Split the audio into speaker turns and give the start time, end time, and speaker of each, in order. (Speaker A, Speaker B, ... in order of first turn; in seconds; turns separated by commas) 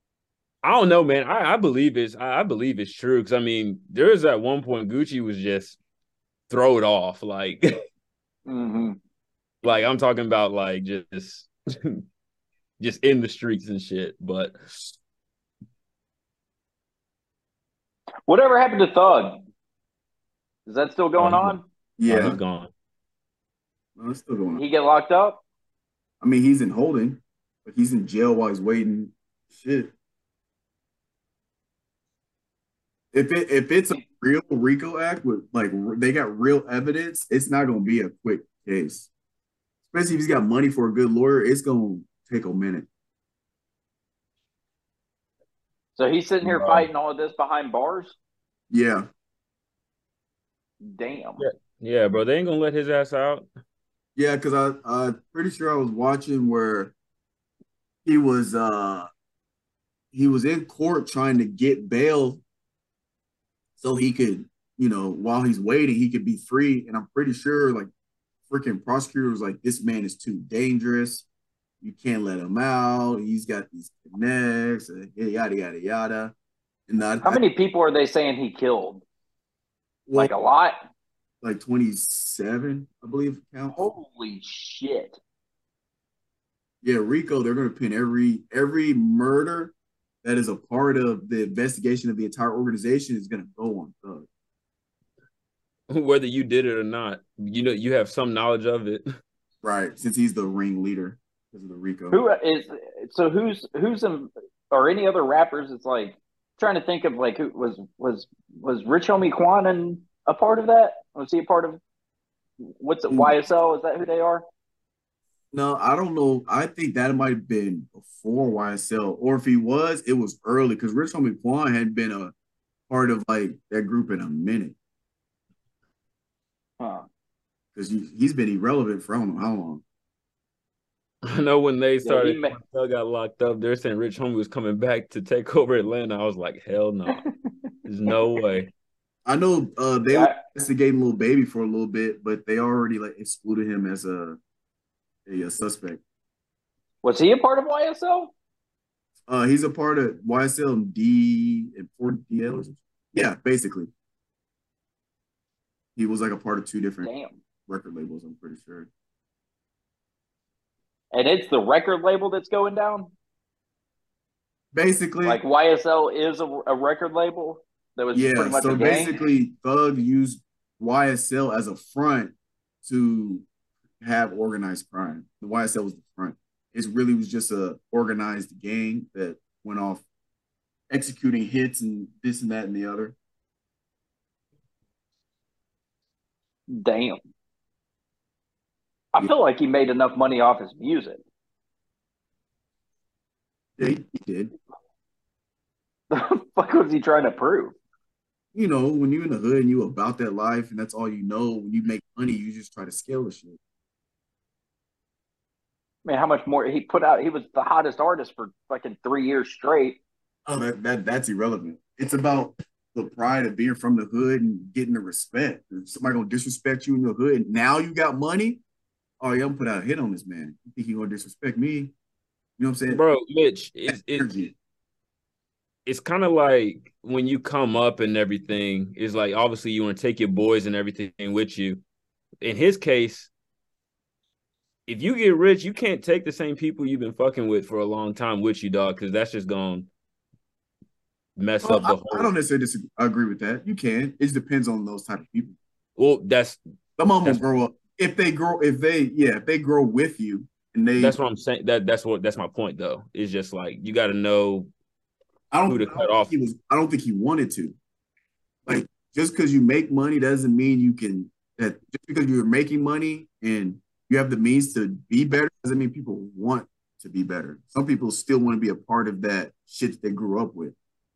Speaker A: 0.6-5.8, Speaker A: 6.5-7.7, Speaker B: 8.5-9.0, Speaker A: 9.6-12.0, Speaker A: 12.8-14.9, Speaker B: 18.3-19.4, Speaker B: 20.6-21.6, Speaker A: 21.2-21.6, Speaker C: 22.0-22.4, Speaker A: 22.1-22.7, Speaker C: 24.0-24.6, Speaker B: 24.6-25.4, Speaker C: 26.2-29.9, Speaker C: 33.1-39.1, Speaker C: 39.9-42.9, Speaker B: 46.0-48.1, Speaker A: 46.4-46.9, Speaker C: 48.7-49.1, Speaker B: 50.8-51.4, Speaker A: 51.4-53.5, Speaker C: 54.1-56.9, Speaker C: 58.0-59.1, Speaker C: 60.1-62.4, Speaker C: 63.8-67.9, Speaker C: 68.5-71.2, Speaker C: 71.8-76.3, Speaker C: 76.9-77.4, Speaker B: 77.2-79.0, Speaker C: 80.1-80.3, Speaker B: 80.1-80.8, Speaker C: 81.4-83.8, Speaker B: 83.7-85.2, Speaker C: 86.8-94.3, Speaker A: 95.9-99.1, Speaker C: 99.6-102.2, Speaker B: 102.1-111.8, Speaker B: 112.8-114.4, Speaker C: 113.1-113.3, Speaker C: 115.5-122.3, Speaker C: 122.9-124.7, Speaker B: 126.8-127.0, Speaker C: 127.7-129.8, Speaker A: 131.2-137.2, Speaker B: 132.0-132.6, Speaker B: 137.1-137.5, Speaker A: 137.8-138.7, Speaker C: 139.2-144.4, Speaker B: 140.1-140.4, Speaker C: 145.2-146.0, Speaker B: 147.0-148.3, Speaker C: 149.3-153.9, Speaker C: 155.9-157.1, Speaker B: 157.0-157.4, Speaker C: 157.7-158.9, Speaker B: 161.1-163.1, Speaker C: 164.7-165.4, Speaker B: 165.2-169.2, Speaker C: 168.1-172.3, Speaker C: 172.8-173.4, Speaker C: 174.0-180.0, Speaker C: 180.9-183.1, Speaker B: 186.7-187.2, Speaker B: 189.1-191.2, Speaker C: 193.8-194.5, Speaker B: 196.1-197.8, Speaker C: 198.5-203.6, Speaker B: 206.0-210.0, Speaker C: 210.5-218.6, Speaker C: 219.2-221.9, Speaker C: 222.6-223.0, Speaker A: 222.9-224.3, Speaker C: 223.9-224.5, Speaker A: 225.8-231.8, Speaker A: 232.4-233.3, Speaker A: 234.9-239.9, Speaker A: 241.4-242.3, Speaker C: 241.6-245.6, Speaker A: 246.0-246.6, Speaker C: 247.0-251.2, Speaker A: 251.0-254.7, Speaker C: 255.5-257.8, Speaker A: 255.7-256.3, Speaker C: 258.6-270.7